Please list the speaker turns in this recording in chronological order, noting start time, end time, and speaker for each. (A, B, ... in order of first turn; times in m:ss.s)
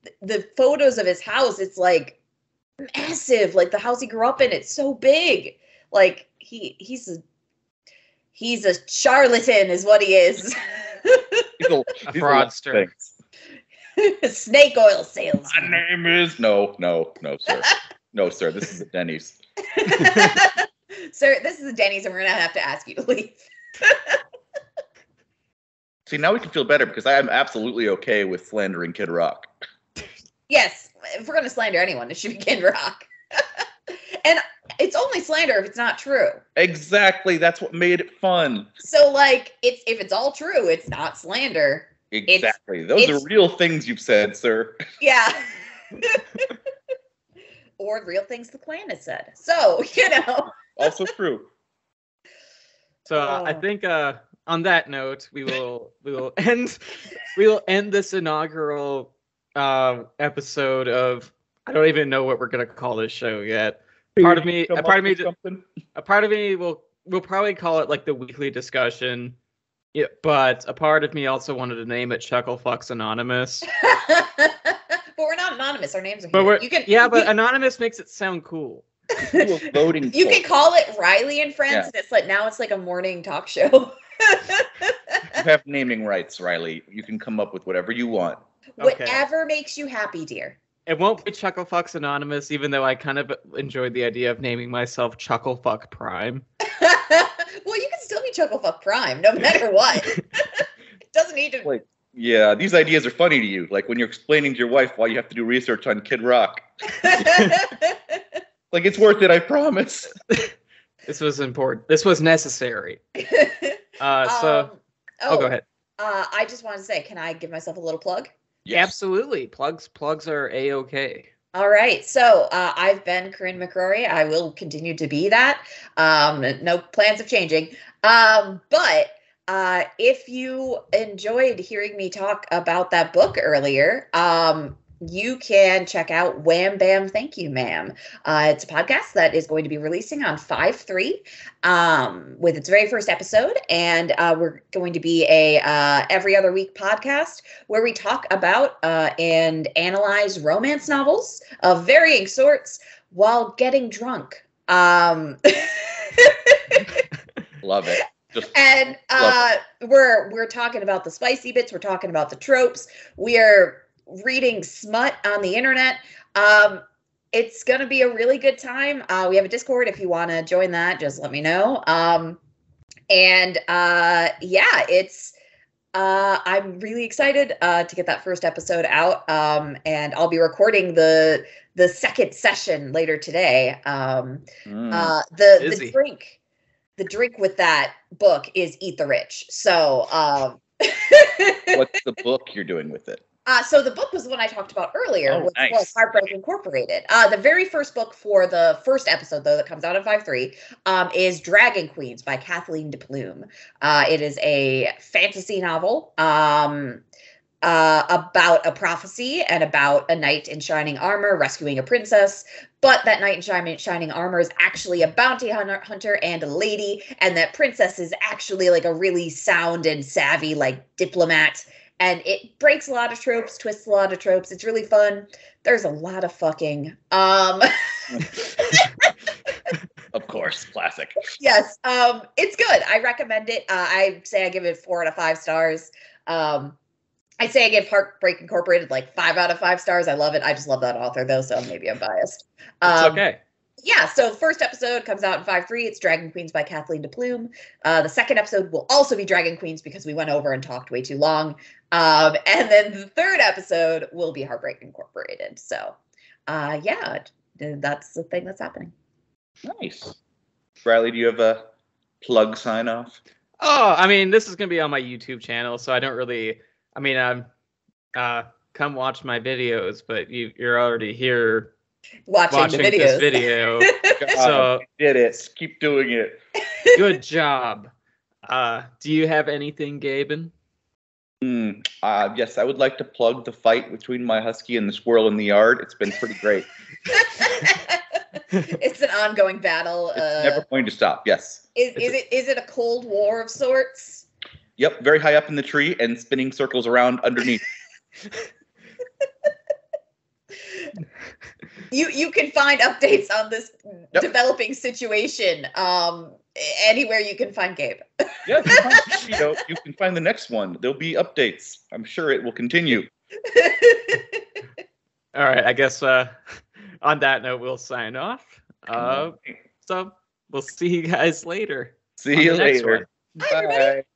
0:00.2-0:02.2 A
0:02.8-0:07.2 A
0:08.4-0:11.5 A
0:11.6-0:13.2 B
0:12.0-0:12.9 C
0:14.0-0:15.8 A
0:15.5-0:19.4 B
0:19.7-0:24.2 A
0:26.1-0:29.5 B
0:30.5-0:36.4 A
0:36.6-0:38.7 B
0:38.8-0:43.2 A
0:42.1-0:44.8 B
0:45.0-0:46.5 A
0:47.8-0:50.9 A
0:50.7-0:51.5 B
0:53.1-0:53.6 A
0:53.1-1:05.3 C
1:04.2-1:05.6 B
1:05.9-1:09.4 C
1:09.9-1:13.6 C
1:13.7-1:17.3 A
1:16.3-1:18.8 C
1:19.2-1:19.5 A
1:19.2-1:20.4 B
1:20.1-1:25.4 A
1:25.3-1:28.4 B
1:28.8-1:30.6 A
1:28.8-1:29.2 C
1:30.8-1:36.4 C
1:36.7-1:41.7 A
1:41.6-1:47.2 B
1:47.0-1:48.2 A
1:48.7-1:50.2 B
1:51.1-1:53.0 C
1:53.2-1:58.3 A
1:54.0-1:54.7 C
1:55.3-1:55.6 C
1:58.6-1:58.9 B
1:58.7-2:01.3 C
2:01.5-2:37.0 A
2:37.6-2:38.5 B
2:38.5-2:52.4 A
2:39.2-2:39.4 B
2:53.1-2:55.3 A
2:55.9-3:06.4 A
3:04.6-3:05.1 B
3:05.6-3:06.0 C
3:07.0-3:11.8 A
3:11.7-3:13.2 B
3:13.4-3:27.0 A
3:15.2-3:16.0 B
3:27.6-3:49.1 A
3:50.1-3:51.2 B
3:51.4-3:56.8 A
3:57.4-4:03.2 A
4:02.8-4:03.4 C
4:03.8-4:16.0 A
4:16.5-4:18.9 A
4:19.6-4:20.2 B
4:20.8-4:21.6 B
4:22.2-4:23.2 B
4:23.6-4:27.5 C
4:28.2-4:31.7 C
4:32.3-4:34.4 A
4:32.5-4:34.8 C
4:34.2-4:36.4 B
4:36.7-4:37.0 A
4:36.9-4:37.9 C
4:38.5-4:40.5 C
4:41.4-4:46.7 B
4:47.1-4:50.6 A
4:50.2-4:51.6 B
4:51.7-4:54.2 A
4:54.8-4:57.6 B
5:01.9-5:09.4 A
5:08.4-5:13.1 B
5:13.4-5:14.4 A
5:15.3-5:23.1 C
5:19.0-5:19.3 B
5:22.2-5:24.0 B
5:23.4-5:23.9 A